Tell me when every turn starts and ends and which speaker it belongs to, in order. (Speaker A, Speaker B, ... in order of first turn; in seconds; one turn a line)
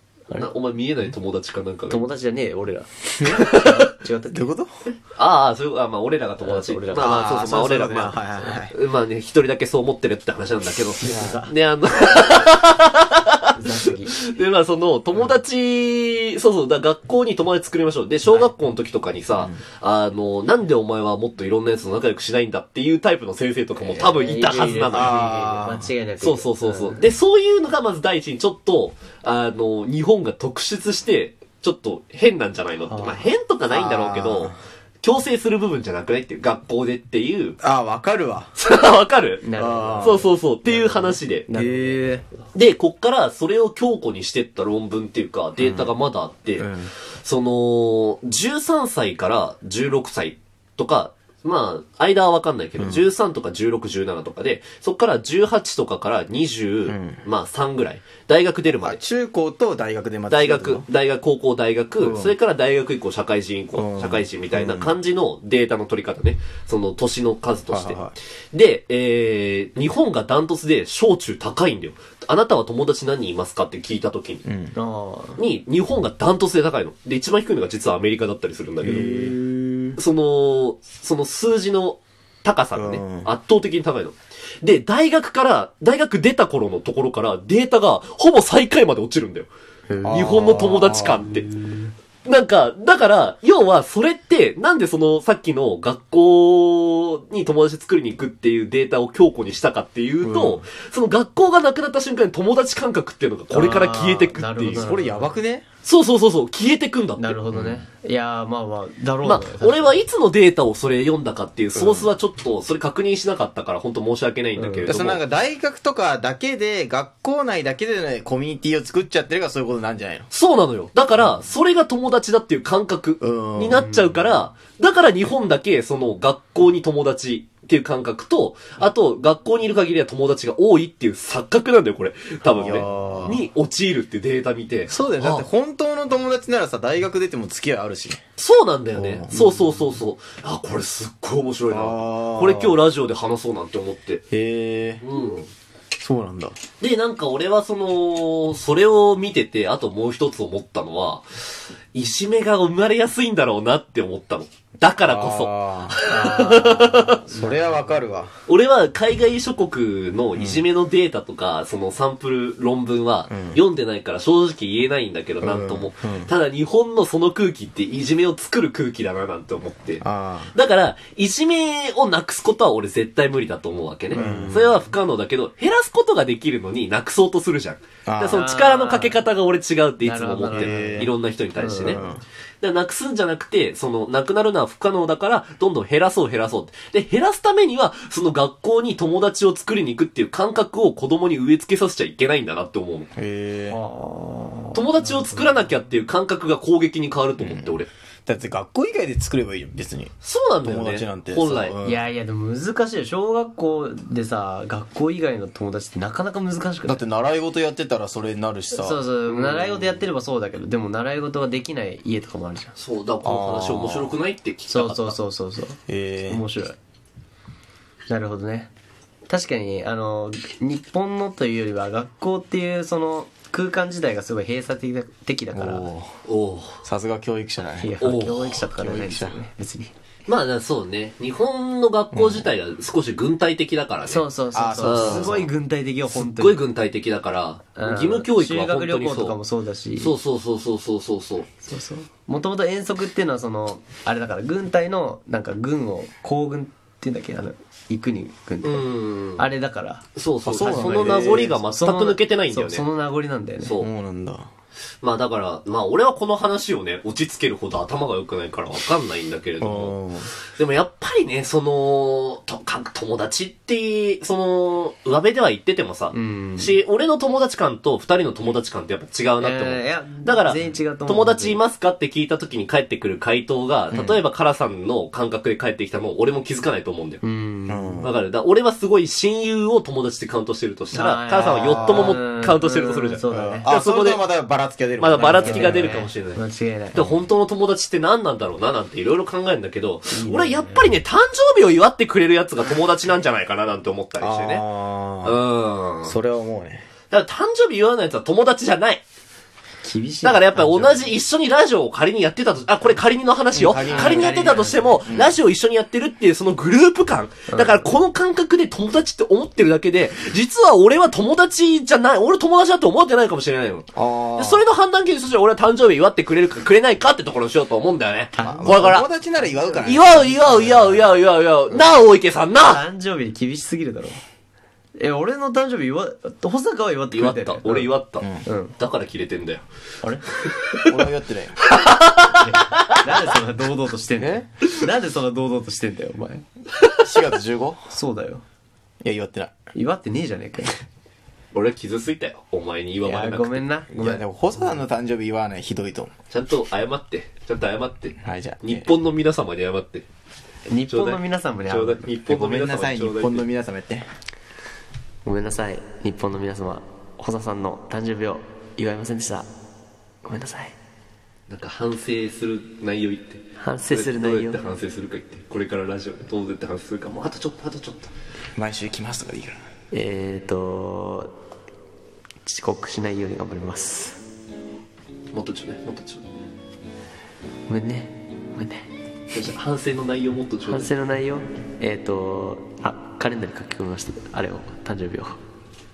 Speaker A: 0.3-2.1
Speaker B: 1.9-4.5
Speaker A: 3.2-3.9
Speaker C: 4.3-4.8
Speaker A: 5.2-25.4
Speaker B: 6.4-8.6
Speaker C: 6.9-8.7
Speaker B: 11.0-11.5
Speaker B: 13.5-14.2
Speaker B: 23.8-27.1
Speaker C: 24.9-25.9
Speaker A: 26.2-37.6
Speaker B: 32.9-33.3
Speaker C: 33.7-34.6
Speaker C: 37.6-38.5
Speaker A: 38.6-39.5
Speaker B: 39.4-42.5
Speaker C: 39.6-40.3
Speaker A: 40.0-41.5
Speaker C: 41.5-42.2
Speaker A: 42.5-59.0
Speaker C: 45.6-46.0
Speaker C: 46.6-46.9
Speaker C: 52.8-53.0
Speaker C: 56.9-57.2
Speaker C: 58.8-60.9
Speaker A: 60.3-74.5
Speaker C: 62.0-62.4
Speaker C: 63.7-64.9
Speaker C: 67.7-68.2
Speaker C: 74.5-74.7
Speaker B: 74.7-75.4
Speaker A: 75.4-79.3
Speaker C: 78.8-80.0
Speaker A: 80.0-89.5
Speaker C: 82.8-83.3
Speaker B: 89.9-90.4
Speaker C: 90.0-91.4
Speaker A: 90.1-91.5
Speaker B: 91.3-91.8
Speaker A: 92.2-104.9
Speaker C: 100.2-100.7
Speaker B: 103.5-105.4
Speaker C: 104.7-105.7
Speaker A: 105.8-107.4
Speaker B: 107.2-110.0
Speaker C: 107.5-107.8
Speaker A: 109.2-115.2
Speaker C: 111.7-112.1
Speaker B: 114.6-114.9
Speaker C: 114.8-120.3
Speaker A: 120.3-135.5
Speaker C: 123.2-123.9
Speaker B: 123.7-124.5
Speaker C: 132.5-133.4
Speaker C: 134.9-138.2
Speaker A: 138.4-144.2
Speaker C: 138.9-139.6
Speaker B: 139.4-139.7
Speaker C: 141.7-142.8
Speaker C: 144.3-145.0
Speaker A: 145.0-145.5
Speaker C: 146.0-146.6
Speaker A: 146.8-157.2
Speaker C: 155.1-158.3
Speaker B: 156.1-158.1
Speaker A: 158.5-182.0
Speaker C: 160.3-160.6
Speaker C: 163.3-163.6
Speaker C: 165.4-166.3
Speaker C: 170.0-170.5
Speaker B: 174.1-174.5
Speaker C: 174.1-174.8
Speaker C: 178.1-178.4
Speaker B: 178.3-179.2
Speaker B: 180.0-182.1
Speaker C: 180.5-181.1
Speaker C: 181.8-182.2
Speaker A: 182.6-193.1
Speaker C: 193.2-193.8
Speaker B: 193.7-195.6
Speaker A: 194.7-197.9
Speaker C: 197.4-197.8
Speaker C: 198.3-200.1
Speaker A: 200.2-201.8
Speaker C: 200.6-202.1
Speaker B: 201.8-207.1
Speaker C: 206.9-209.1
Speaker B: 208.7-212.8
Speaker A: 209.3-210.1
Speaker A: 212.8-215.2
Speaker C: 213.2-214.1
Speaker B: 214.7-216.8
Speaker C: 215.9-216.4
Speaker B: 218.1-218.7
Speaker B: 219.3-225.9
Speaker C: 225.5-226.1
Speaker A: 226.3-226.8
Speaker C: 226.8-227.9
Speaker B: 227.8-229.9
Speaker A: 228.0-228.6
Speaker C: 228.6-229.4
Speaker A: 230.3-234.3
Speaker C: 232.1-232.5
Speaker B: 234.1-236.6
Speaker C: 234.5-235.5
Speaker A: 234.8-235.4
Speaker A: 236.1-239.4
Speaker B: 237.8-240.2
Speaker A: 240.0-241.5
Speaker B: 241.6-253.8
Speaker A: 248.6-249.5
Speaker A: 250.2-252.9
Speaker C: 250.4-251.6
Speaker A: 253.6-253.9
Speaker C: 253.8-254.5
Speaker A: 255.0-260.0
Speaker C: 259.6-260.3
Speaker A: 260.6-277.2
Speaker B: 266.1-266.8
Speaker B: 269.4-271.6
Speaker C: 273.9-274.2
Speaker B: 277.2-278.1
Speaker C: 277.7-278.1
Speaker A: 278.0-284.2
Speaker B: 280.9-283.7
Speaker C: 281.4-282.2
Speaker C: 283.3-286.0
Speaker A: 285.0-286.4
Speaker B: 285.1-287.0
Speaker A: 286.9-294.6
Speaker C: 287.0-287.2
Speaker B: 290.1-290.9
Speaker C: 294.2-295.4
Speaker A: 295.2-296.1
Speaker C: 296.1-296.8
Speaker A: 297.1-299.0
Speaker B: 299.8-301.1
Speaker A: 300.2-319.1
Speaker C: 303.5-304.5
Speaker B: 303.8-305.0
Speaker C: 305.1-305.4
Speaker B: 307.5-307.9
Speaker C: 313.9-314.6
Speaker C: 318.3-321.0
Speaker B: 318.4-321.0
Speaker A: 319.8-322.8
Speaker B: 322.6-324.2
Speaker B: 325.0-327.9
Speaker A: 327.1-329.6
Speaker C: 328.2-328.4
Speaker B: 328.4-328.8
Speaker A: 330.3-331.1
Speaker C: 330.9-331.6
Speaker A: 331.6-333.0
Speaker B: 332.3-336.4
Speaker C: 334.2-334.4
Speaker C: 337.0-337.9
Speaker B: 337.9-338.4
Speaker C: 339.0-339.5
Speaker B: 339.7-340.8
Speaker A: 341.5-343.7
Speaker B: 343.0-344.8
Speaker C: 343.9-346.1
Speaker A: 346.3-350.1
Speaker C: 348.2-348.9
Speaker B: 350.7-352.1
Speaker A: 350.9-353.5
Speaker C: 352.3-354.1
Speaker B: 355.2-359.5
Speaker B: 360.2-360.7
Speaker A: 361.5-368.1
Speaker B: 363.6-364.6
Speaker C: 368.6-369.6
Speaker B: 369.9-371.3
Speaker B: 372.4-374.2
Speaker A: 375.3-376.3
Speaker B: 377.7-378.9
Speaker A: 379.3-380.9
Speaker B: 380.7-385.4